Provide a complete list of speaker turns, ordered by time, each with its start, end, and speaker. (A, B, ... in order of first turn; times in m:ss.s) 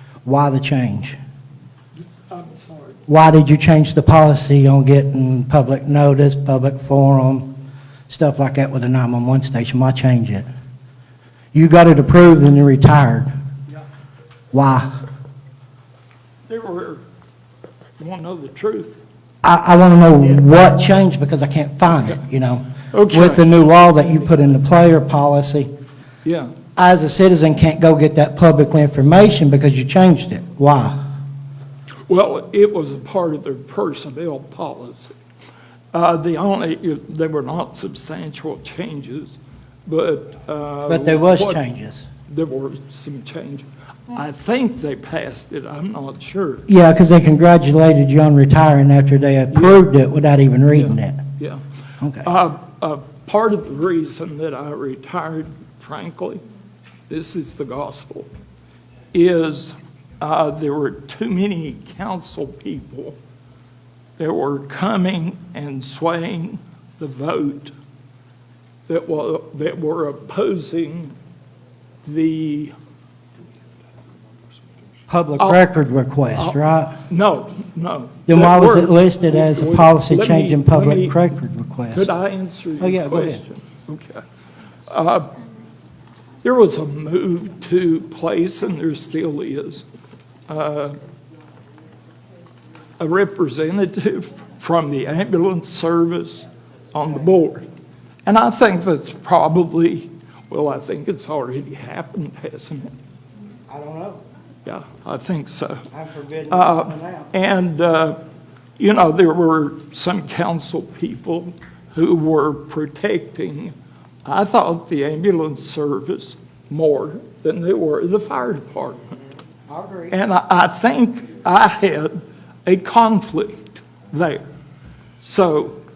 0:00.2-0:01.2 A
0:02.3-0:03.0 B
0:03.1-0:07.5 A
0:08.1-0:10.5 A
0:11.5-0:13.3 A
0:14.5-0:14.9 A
0:16.5-0:17.0 B
0:18.0-0:19.0 B
0:19.4-0:25.7 A
0:22.9-0:24.6 B
0:26.2-0:26.5 B
0:26.8-0:31.0 A
0:32.1-0:35.1 B
0:35.9-0:41.6 B
0:40.9-0:42.0 A
0:42.3-0:46.6 B
0:46.7-0:51.2 A
0:49.5-0:49.8 B
0:50.7-0:51.6 B
0:52.0-0:52.3 A
0:52.2-0:56.4 B
0:57.1-0:58.3 B
0:59.1-1:03.2 B
1:04.2-1:07.7 B
1:08.9-1:11.1 B
1:12.0-1:12.7 B
1:15.1-1:17.0 A
1:16.4-1:21.2 B
1:18.3-1:22.1 A
1:21.9-1:24.2 B
1:22.8-1:23.4 A
1:24.9-1:25.4 B
1:26.4-1:29.8 B
1:30.5-1:31.0 B
1:33.0-1:37.6 B
1:38.2-1:42.9 B
1:43.7-1:44.2 A
1:44.6-1:45.8 B
1:45.9-1:47.3 A
1:46.5-1:48.2 B
1:48.8-1:53.7 B
1:54.2-1:59.2 B
1:59.7-2:00.2 A
2:00.1-2:04.4 B
2:05.2-2:05.8 B